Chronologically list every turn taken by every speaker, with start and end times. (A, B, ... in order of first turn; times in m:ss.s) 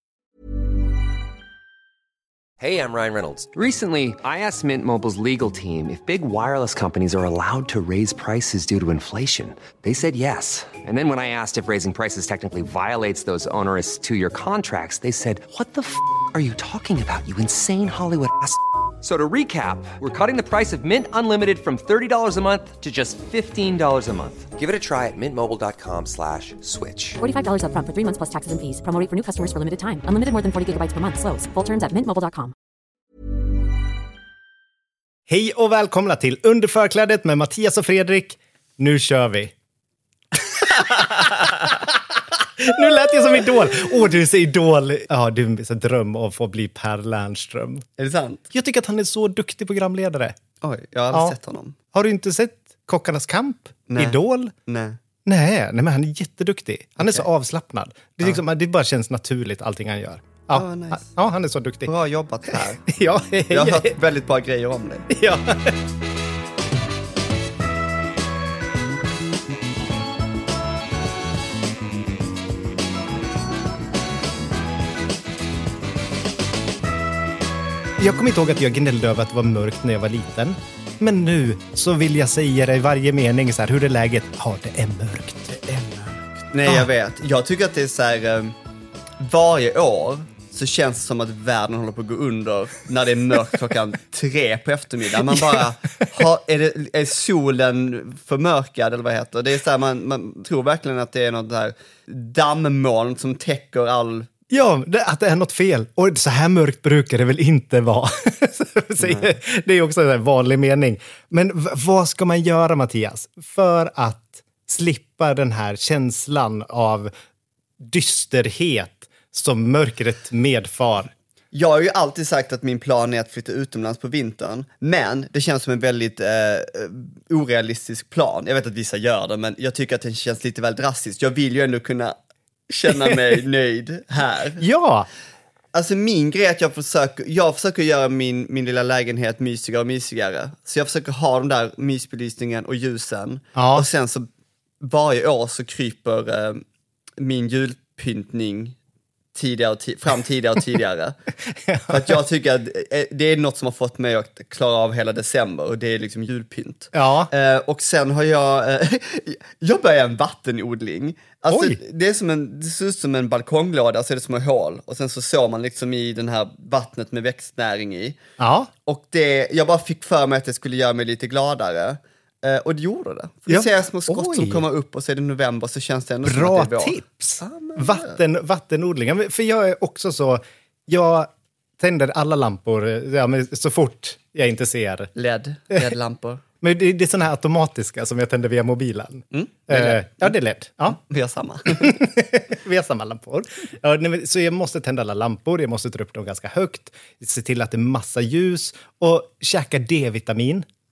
0:02.6-0:27.2 A
0:27.2-0:32.5 B
0:35.3-0:39.5 C
0:40.4-0:47.9 C
0:48.0-0:48.4 D
0:48.5-0:50.4 C
0:50.6-0:51.8 D
0:51.9-0:54.5 C
0:53.9-0:55.0 D
0:55.2-1:01.9 C
0:57.0-0:57.3 D
1:00.5-1:01.2 D
1:01.8-1:02.9 D
1:02.5-1:04.0 C
1:03.5-1:05.1 D
1:05.1-1:05.8 C
1:18.0-1:25.5 C
1:25.5-1:28.6 D
1:29.2-1:44.3 D
1:35.3-1:35.6 C
1:44.5-1:57.1 C
1:49.0-1:49.3 D
1:57.8-2:01.1 C
2:01.5-2:12.2 D
2:12.7-2:14.6 D
2:12.9-2:13.3 C
2:14.6-2:15.1 C
2:15.7-2:24.3 D
2:23.6-2:23.9 C
2:24.8-2:26.6 D
2:27.2-2:28.8 D
2:29.3-2:31.2 D
2:31.5-2:32.2 C
2:31.9-2:48.2 D
2:36.9-2:37.3 C
2:41.5-2:41.8 C
2:48.4-2:48.7 C
2:48.9-2:58.2 D
2:53.5-2:54.6 C
2:56.2-3:05.1 C
3:05.2-3:06.4 D
3:06.6-3:11.0 C
3:09.3-3:10.3 D
3:10.9-3:12.0 D
3:11.7-3:20.7 C